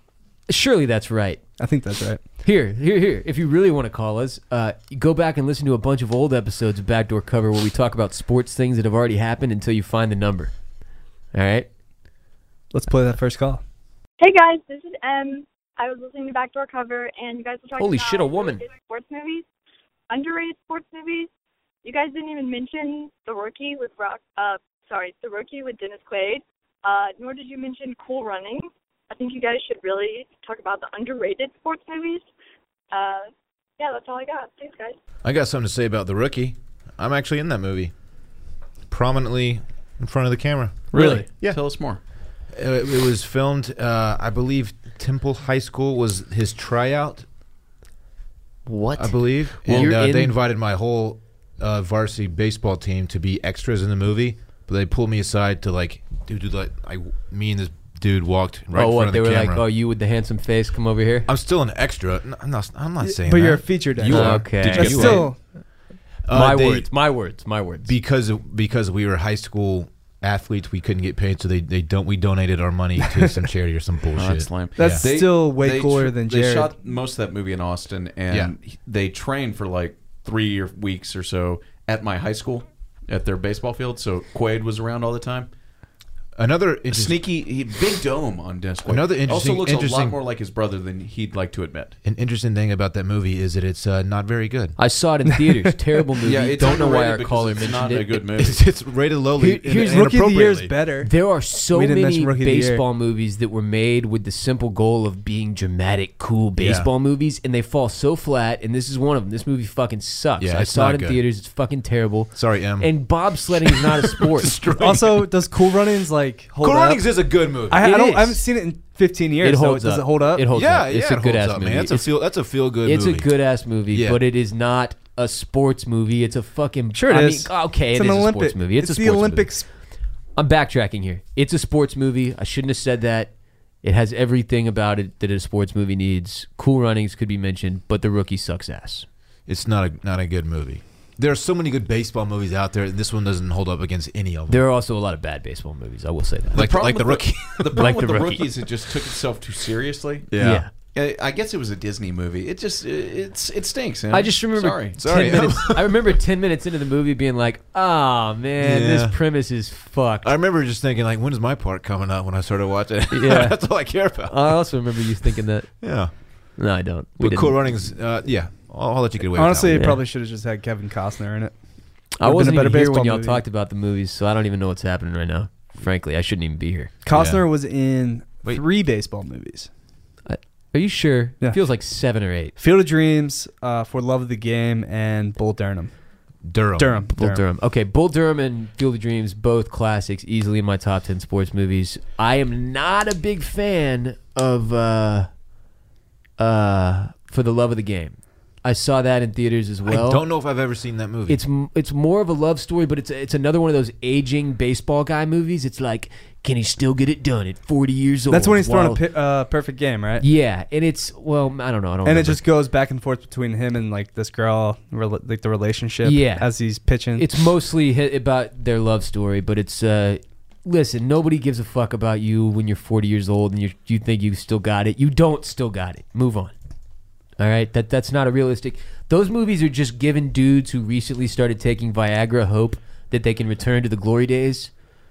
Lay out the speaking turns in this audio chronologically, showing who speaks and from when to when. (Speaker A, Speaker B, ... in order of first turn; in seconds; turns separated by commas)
Speaker A: 0.5-1.4, Speaker B: 1.6-2.2, Speaker A: 2.4-10.5, Speaker A: 11.3-11.7, Speaker B: 12.7-13.6, Speaker C: 14.2-19.5, Speaker A: 17.8-18.6, Speaker C: 20.1-21.3, Speaker C: 21.8-32.3, Speaker C: 32.9-33.3, Speaker C: 33.8-35.0, Speaker D: 35.2-37.9, Speaker D: 38.9-40.9, Speaker B: 40.9-41.3, Speaker E: 40.9-42.0, Speaker A: 41.0-41.2, Speaker D: 42.5-47.3, Speaker A: 48.7-50.4, Speaker D: 49.0-59.6, Speaker E: 49.7-49.9, Speaker A: 58.7-61.3, Speaker D: 61.3-65.3, Speaker B: 63.0-65.4, Speaker A: 64.1-65.3, Speaker D: 66.2-67.0, Speaker A: 66.3-67.9, Speaker D: 67.8-75.0, Speaker E: 74.2-85.5, Speaker B: 74.8-76.7, Speaker D: 86.4-87.2, Speaker E: 86.9-92.0, Speaker D: 88.8-90.2, Speaker D: 92.0-94.8, Speaker A: 94.8-98.2, Speaker E: 96.2-98.6, Speaker D: 98.4-100.7, Speaker A: 99.4-100.1, Speaker B: 99.8-102.8, Speaker A: 101.0-114.6, Speaker D: 106.6-106.9, Speaker D: 110.4-111.2, Speaker D: 112.3-115.4, Speaker B: 114.8-120.5, Speaker D: 116.6-117.8, Speaker A: 117.8-118.4, Speaker A: 119.4-122.1, Speaker D: 120.5-123.3, Speaker A: 122.8-129.5, Speaker D: 123.9-124.2, Speaker B: 126.9-129.7, Speaker A: 130.4-133.3, Speaker A: 133.8-139.1, Speaker D: 139.5-144.6, Speaker A: 144.5-146.7, Speaker D: 146.5-147.9, Speaker E: 146.6-150.3, Speaker A: 147.8-148.5, Speaker D: 150.3-150.7, Speaker A: 150.4-150.7, Speaker E: 150.9-155.0, Speaker A: 154.1-160.3, Speaker D: 155.0-156.1, Speaker D: 158.6-159.2, Speaker D: 160.2-164.6, Speaker A: 163.1-165.8, Speaker D: 165.8-166.1, Speaker A: 166.6-167.6, Speaker D: 167.2-169.8, Speaker B: 169.3-173.4, Speaker A: 169.7-170.0, Speaker A: 172.2-176.9, Speaker B: 177.0-179.7, Speaker D: 177.1-177.5, Speaker A: 180.3-182.6, Speaker B: 182.6-185.9, Speaker D: 186.4-187.1, Speaker B: 186.8-187.4, Speaker A: 187.1-195.3, Speaker A: 196.4-200.2, Speaker D: 199.9-201.4, Speaker A: 201.3-209.0, Speaker B: 208.3-210.2, Speaker A: 210.2-212.4, Speaker B: 212.0-217.3, Speaker A: 216.0-216.5, Speaker A: 217.1-226.5, Speaker A: 227.4-234.7